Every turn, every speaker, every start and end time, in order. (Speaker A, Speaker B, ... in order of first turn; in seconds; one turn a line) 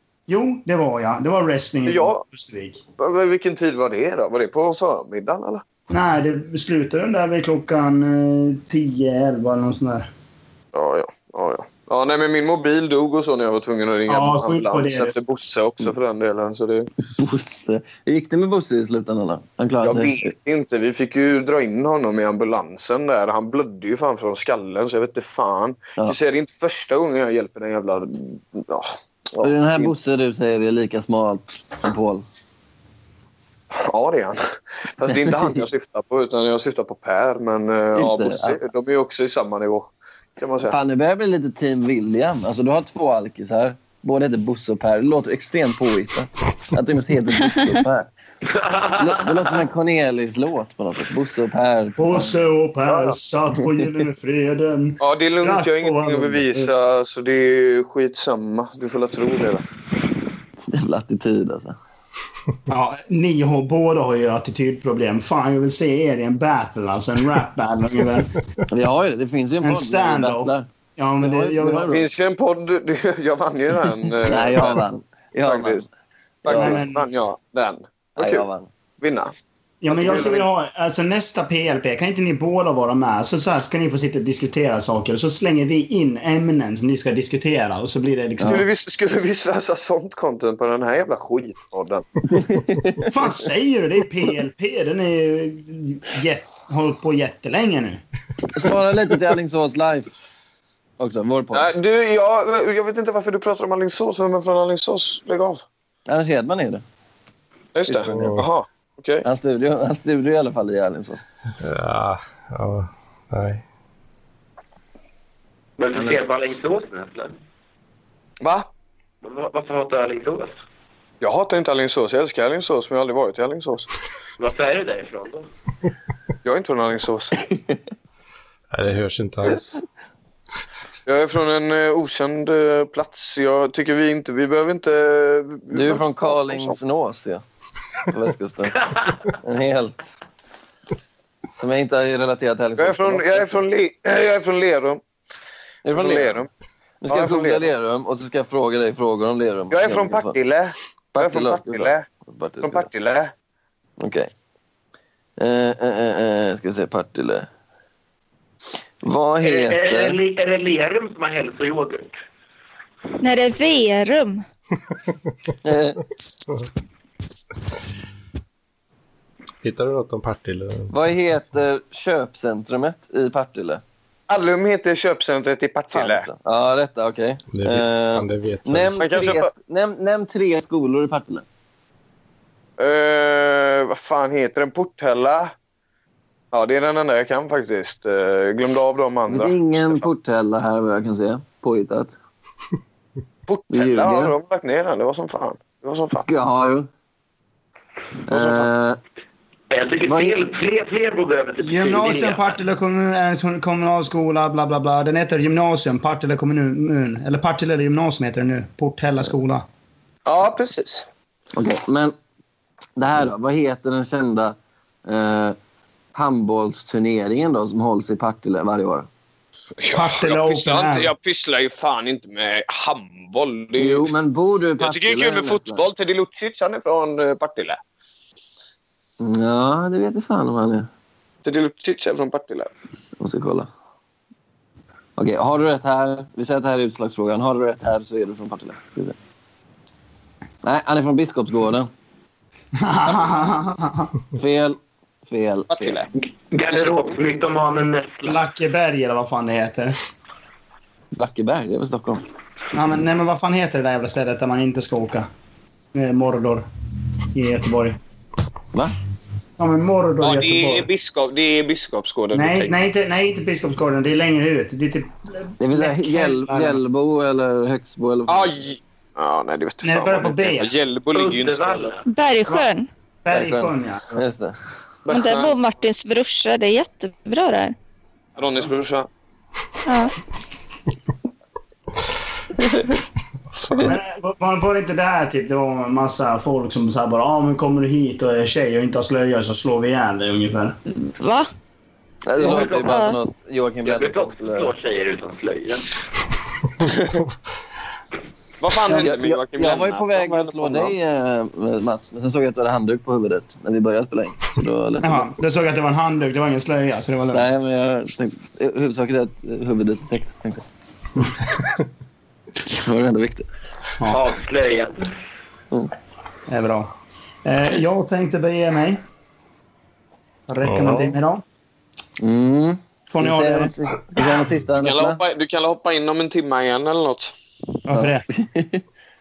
Speaker A: 0.3-2.8
Speaker B: 1.8-2.2
Speaker B: 3.0-5.6
Speaker A: 5.9-10.1
Speaker B: 10.7-16.9
Speaker A: 14.1-15.1
Speaker C: 17.1-20.3
Speaker B: 19.8-29.9
Speaker C: 29.4-32.2
Speaker B: 33.7-34.4
Speaker B: 34.9-40.8
Speaker C: 35.1-35.6
Speaker C: 37.9-38.6
Speaker C: 40.6-48.1
Speaker D: 48.6-49.6
Speaker C: 49.0-52.5
Speaker A: 52.0-56.7
Speaker B: 52.9-53.2
Speaker B: 55.0-59.6
Speaker C: 60.7-61.8
Speaker A: 62.7-68.3
Speaker C: 68.7-70.7
Speaker A: 69.6-71.9
Speaker C: 71.2-72.0
Speaker B: 71.9-74.9
Speaker C: 74.2-75.9
Speaker B: 75.4-75.9
Speaker B: 76.4-78.5
Speaker C: 76.5-76.8
Speaker A: 76.5-77.0
Speaker C: 78.2-78.7
Speaker B: 79.0-79.3
Speaker A: 79.8-88.6
Speaker B: 79.9-80.5
Speaker B: 88.4-92.1
Speaker C: 92.3-93.1
Speaker A: 93.1-98.0
Speaker C: 98.5-100.1
Speaker C: 101.0-101.7
Speaker B: 101.5-105.6
Speaker C: 106.1-106.8
Speaker B: 107.7-109.2
Speaker C: 107.9-108.3
Speaker E: 108.1-108.5
Speaker C: 109.2-111.2
Speaker E: 111.6-113.6
Speaker D: 115.8-117.4
Speaker C: 115.9-116.2
Speaker B: 118.4-118.7
Speaker D: 119.2-120.5
Speaker B: 121.2-123.9
Speaker D: 124.4-125.5
Speaker B: 126.4-127.3
Speaker E: 128.7-129.8
Speaker B: 131.1-136.8
Speaker C: 135.7-137.4
Speaker C: 138.1-138.8
Speaker D: 138.8-139.2
Speaker C: 139.3-140.1
Speaker C: 141.6-143.6
Speaker B: 142.8-145.0
Speaker C: 145.8-146.4
Speaker B: 145.9-146.5
Speaker C: 147.0-150.4
Speaker B: 147.1-147.7
Speaker B: 149.7-152.1
Speaker C: 151.1-152.9
Speaker B: 152.6-153.3
Speaker C: 154.0-154.3
Speaker C: 155.4-157.5
Speaker C: 159.0-160.2
Speaker D: 159.4-162.2
Speaker F: 163.2-164.4
Speaker C: 165.6-166.0
Speaker E: 169.6-171.0
Speaker C: 170.9-173.8
Speaker B: 174.3-176.3
Speaker C: 175.9-181.4
Speaker E: 177.5-178.9
Speaker B: 179.0-179.5
Speaker B: 182.8-185.5
Speaker B: 186.5-190.1
Speaker C: 189.3-192.2
Speaker B: 193.5-196.2
Speaker C: 193.7-194.3
Speaker C: 196.2-196.9
Speaker C: 198.3-199.0
Speaker B: 198.3-198.7
Speaker D: 199.7-202.6
Speaker C: 200.0-200.4
Speaker A: 201.6-209.6
Speaker B: 210.2-211.1
Speaker C: 211.6-212.1
Speaker C: 213.0-215.6
Speaker C: 216.1-219.1
Speaker B: 219.8-224.1
Speaker A: 219.9-221.1
Speaker C: 223.8-225.8
Speaker B: 224.8-227.8
Speaker C: 229.2-230.9
Speaker B: 231.4-232.7
Speaker C: 233.2-233.7
Speaker C: 235.2-239.2
Speaker C: 240.6-241.9
Speaker A: 242.8-244.1
Speaker C: 244.3-246.0
Speaker B: 245.7-246.1
Speaker D: 246.5-248.4
Speaker A: 248.2-250.0
Speaker C: 251.1-252.2
Speaker A: 252.7-255.3
Speaker A: 255.9-256.7
Speaker A: 257.3-258.0
Speaker A: 259.6-260.9
Speaker B: 260.2-262.8
Speaker A: 262.3-266.8
Speaker C: 265.6-268.5
Speaker B: 268.3-271.9
Speaker A: 269.8-270.7
Speaker D: 271.1-272.0
Speaker F: 272.1-272.9
Speaker A: 273.2-274.0
Speaker C: 273.3-274.6
Speaker B: 275.0-275.5
Speaker F: 275.1-277.7
Speaker B: 278.4-279.1
Speaker F: 279.9-280.1
Speaker E: 283.5-284.0
Speaker A: 283.8-290.8
Speaker F: 290.9-291.5
Speaker C: 292.2-294.7
Speaker D: 292.4-293.0
Speaker F: 292.6-293.2
Speaker D: 293.8-295.9
Speaker B: 298.6-300.9
Speaker C: 298.9-305.3
Speaker A: 305.0-307.5
Speaker C: 307.3-310.6
Speaker C: 312.7-313.4
Speaker D: 314.1-315.0
Speaker A: 316.5-316.9
Speaker A: 317.4-319.0
Speaker A: 320.5-321.4
Speaker E: 320.6-321.2
Speaker C: 322.2-325.2
Speaker A: 323.1-323.7
Speaker B: 324.8-327.3
Speaker A: 327.9-328.2
Speaker C: 327.9-328.8